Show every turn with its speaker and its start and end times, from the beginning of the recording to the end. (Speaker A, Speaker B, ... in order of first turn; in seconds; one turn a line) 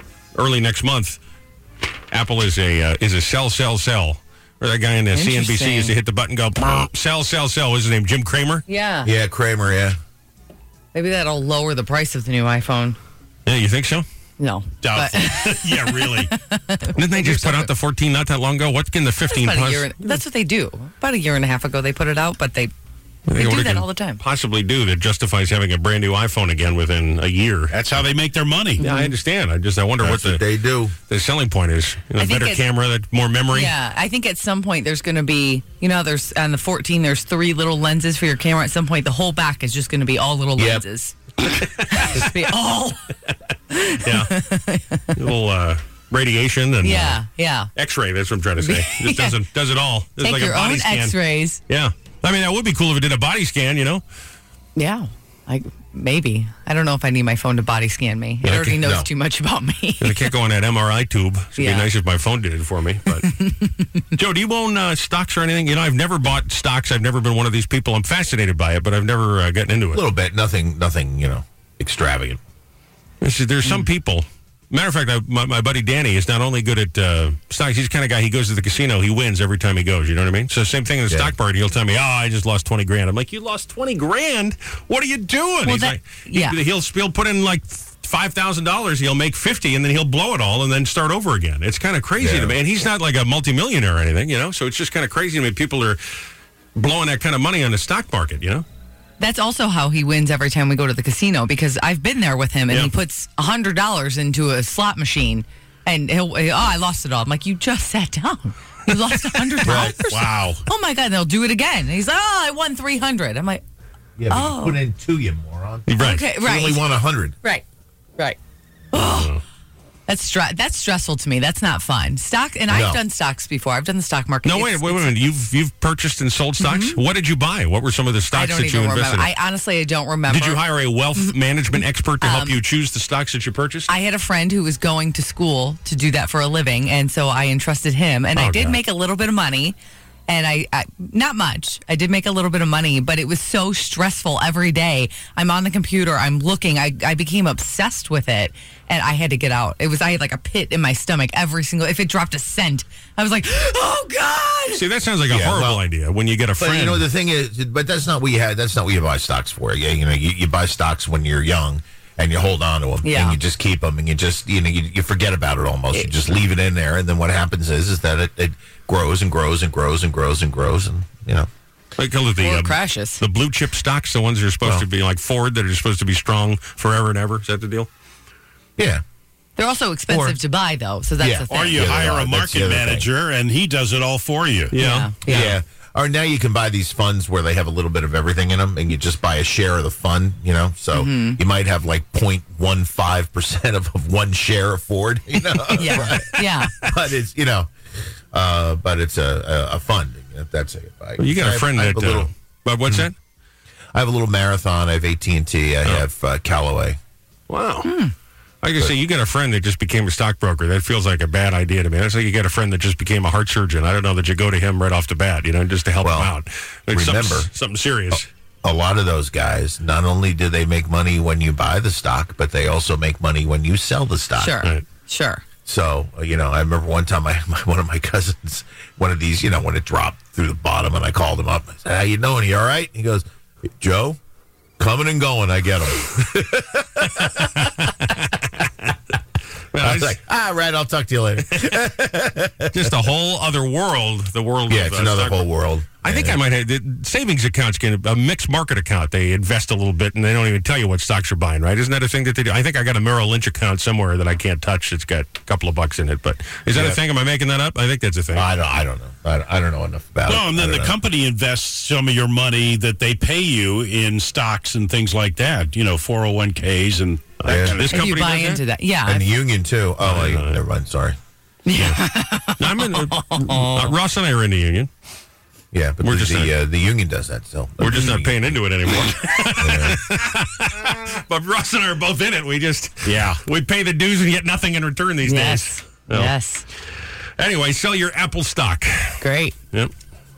Speaker A: 0.3-1.2
Speaker A: 2.1-8.7
Speaker B: 5.1-5.9
Speaker B: 8.7-9.1
Speaker C: 9.1-10.0
Speaker B: 10.9-13.0
Speaker A: 13.5-14.1
Speaker B: 14.4-17.7
Speaker D: 14.8-16.3
Speaker A: 16.9-20.2
Speaker B: 19.3-22.7
Speaker A: 23.3-27.7
Speaker B: 23.3-24.2
Speaker D: 27.7-28.8
Speaker B: 28.8-29.1
Speaker A: 28.8-30.4
Speaker C: 30.0-30.9
Speaker A: 31.1-33.7
Speaker B: 32.2-32.6
Speaker B: 33.5-43.0
Speaker C: 40.6-40.8
Speaker A: 41.9-42.2
Speaker B: 43.7-45.1
Speaker A: 44.0-44.3
Speaker A: 45.1-47.2
Speaker B: 46.8-47.7
Speaker A: 47.8-51.2
Speaker B: 48.6-49.4
Speaker B: 50.2-51.6
Speaker A: 51.7-54.0
Speaker B: 54.8-60.3
Speaker C: 58.4-59.1
Speaker A: 60.0-63.4
Speaker B: 61.6-61.9
Speaker B: 63.4-63.7
Speaker A: 64.1-70.0
Speaker C: 69.9-72.4
Speaker A: 73.2-96.0
Speaker B: 85.7-86.6
Speaker C: 92.2-92.6
Speaker A: 96.8-98.7
Speaker B: 99.2-113.6
Speaker A: 109.3-109.8
Speaker C: 109.7-110.0
Speaker D: 110.1-110.6
Speaker C: 114.2-117.4
Speaker B: 114.3-114.8
Speaker A: 115.9-116.2
Speaker B: 116.0-116.8
Speaker B: 118.9-119.3
Speaker A: 119.0-119.4
Speaker B: 120.1-125.2
Speaker C: 122.7-123.0
Speaker A: 124.5-129.3
Speaker B: 126.6-127.0
Speaker B: 128.3-130.6
Speaker A: 130.3-133.9
Speaker B: 132.2-132.6
Speaker B: 133.9-139.8
Speaker A: 138.4-138.8
Speaker B: 140.3-154.8
Speaker A: 154.7-157.1
Speaker C: 155.3-155.8
Speaker C: 156.6-171.5
Speaker B: 163.0-163.4
Speaker B: 165.9-166.3
Speaker A: 172.0-177.9
Speaker B: 172.4-173.2
Speaker C: 178.8-179.0
Speaker B: 179.6-181.9
Speaker C: 180.1-180.4
Speaker C: 181.2-183.1
Speaker D: 181.5-184.8
Speaker A: 184.7-185.5
Speaker B: 184.8-185.5
Speaker C: 185.3-202.3
Speaker B: 190.9-191.4
Speaker B: 195.7-196.7
Speaker A: 196.4-196.9
Speaker A: 201.2-203.2
Speaker C: 203.9-207.0
Speaker A: 207.5-207.9
Speaker B: 207.8-208.1
Speaker A: 208.6-218.3
Speaker C: 216.0-216.3
Speaker C: 216.9-217.5
Speaker C: 218.1-224.6
Speaker B: 224.4-225.4
Speaker C: 225.7-234.2
Speaker C: 234.8-237.7
Speaker A: 237.2-238.3
Speaker A: 239.7-240.2
Speaker C: 239.8-243.0
Speaker A: 242.7-245.4
Speaker C: 244.7-246.4
Speaker A: 246.0-258.5
Speaker C: 256.7-257.0
Speaker C: 258.3-261.0
Speaker D: 260.3-268.1
Speaker A: 267.4-268.6
Speaker C: 267.5-267.8
Speaker B: 267.9-269.3
Speaker C: 269.1-271.2
Speaker A: 270.0-270.6
Speaker B: 271.7-273.9
Speaker A: 272.6-274.9
Speaker C: 275.7-278.5
Speaker A: 276.0-276.5
Speaker A: 277.8-286.3
Speaker B: 277.9-278.1
Speaker C: 279.6-280.0
Speaker D: 283.1-283.4
Speaker B: 285.2-286.7
Speaker A: 287.4-289.9
Speaker B: 289.2-289.6